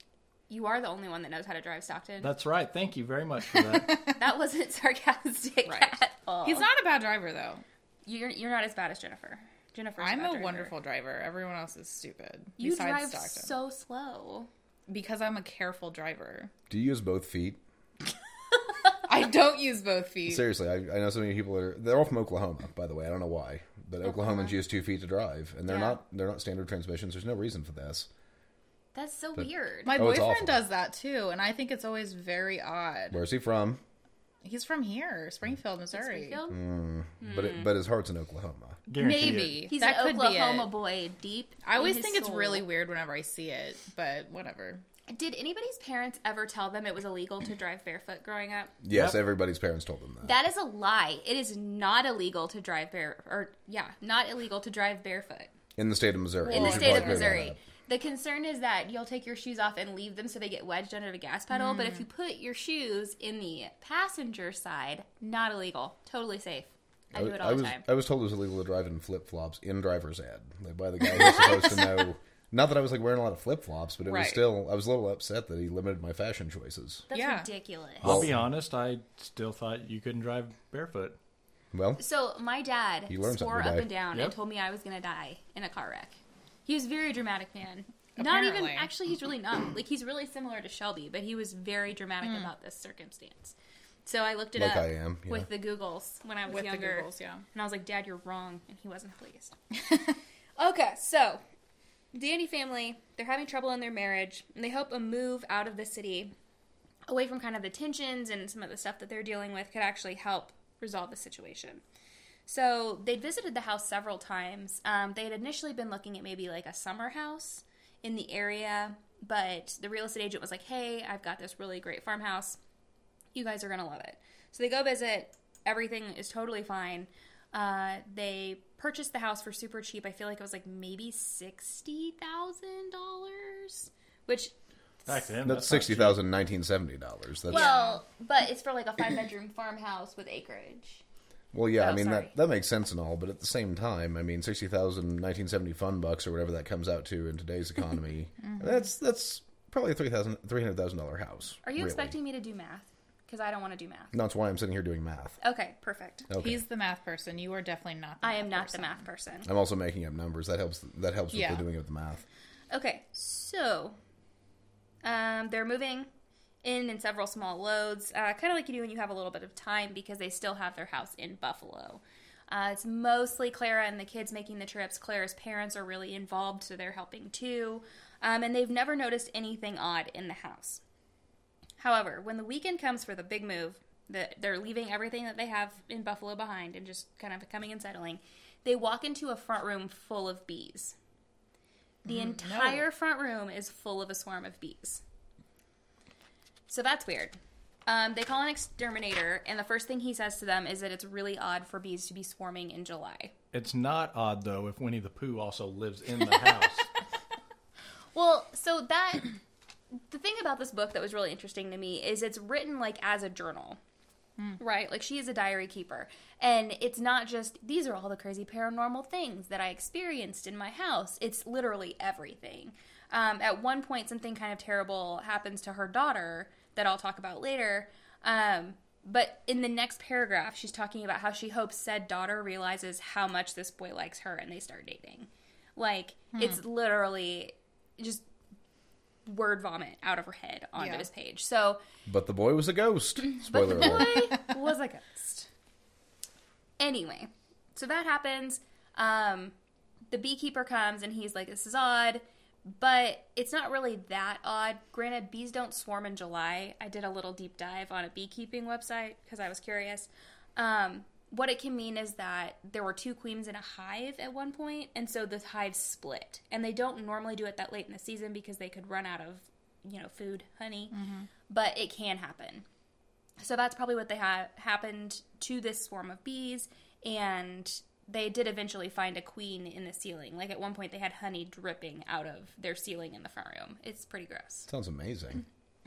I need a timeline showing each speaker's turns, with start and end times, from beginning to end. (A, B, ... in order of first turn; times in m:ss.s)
0:00.5-0:02.3 A
0:02.2-0:04.1 B
0:03.7-0:04.1 C
0:04.1-0:06.6 A
0:05.6-0:07.6 C
0:08.0-0:10.7 A
0:10.0-0:13.5 C
0:12.6-0:14.5 A
0:14.9-0:16.5 C
0:16.7-0:17.6 D
0:19.0-0:20.4 C
0:20.2-0:28.1 D
0:25.7-0:26.0 A
0:28.9-0:30.0 A
0:29.4-0:30.6 D
0:29.8-0:33.2 C
0:33.1-0:33.8 D
0:34.4-0:36.4 C
0:35.9-0:36.6 A
0:36.5-0:38.8 D
0:37.2-0:37.7 A
0:38.9-0:39.7 B
0:39.0-0:40.7 C
0:39.0-0:42.7 A
0:41.6-0:44.8 C
0:45.1-0:48.7 A
0:48.8-0:50.4 D
0:48.9-0:49.2 B
0:50.2-0:55.5 A
0:55.8-0:57.6 D
0:56.4-0:57.4 C
0:56.4-1:07.8 A
1:01.5-1:02.0 C
1:07.1-1:17.1 D
1:14.0-1:14.4 C
1:17.1-1:18.1 A
1:17.1-1:17.5 C
1:18.0-1:21.2 B
1:18.0-1:18.4 D
1:21.7-1:22.0 D
1:22.0-1:39.5 A
1:23.1-1:23.9 D
1:28.2-1:28.9 C
1:32.2-1:32.5 C
1:34.6-1:35.5 D
1:36.5-1:37.4 C
1:40.6-1:41.4 A
1:42.1-1:46.3 A
1:47.1-1:51.8 A
1:52.4-2:02.6 A
2:03.3-2:14.5 A
2:15.0-2:16.2 B
2:15.4-2:17.7 D
2:17.5-2:18.0 C
2:17.5-2:21.0 A
2:21.5-2:32.1 D
2:21.8-2:22.3 A
2:28.4-2:28.8 C
2:31.6-2:34.1 A
2:34.1-2:35.4 D
2:35.4-2:36.3 A
2:36.3-2:36.6 D
2:36.4-2:39.0 C
2:38.2-2:39.5 A
2:39.4-2:42.2 D
2:41.3-2:41.6 C
2:42.7-2:44.0 A
2:45.0-2:46.1 A
2:46.6-3:00.8 A
3:01.8-3:11.0 A
3:12.0-3:12.8 C
3:12.0-3:15.0 A
3:16.7-3:23.3 A
3:23.5-3:26.9 B
3:28.1-3:29.3 A
3:30.1-3:33.8 A
3:34.6-3:58.2 A
3:59.2-4:01.8 A
4:00.8-4:01.1 C
4:02.0-4:04.3 D
4:03.3-4:05.5 A
4:06.8-4:09.5 A
4:10.1-4:31.0 A
4:30.9-4:31.3 C
4:31.5-4:32.6 A
4:33.4-4:44.7 A
4:44.7-4:45.4 D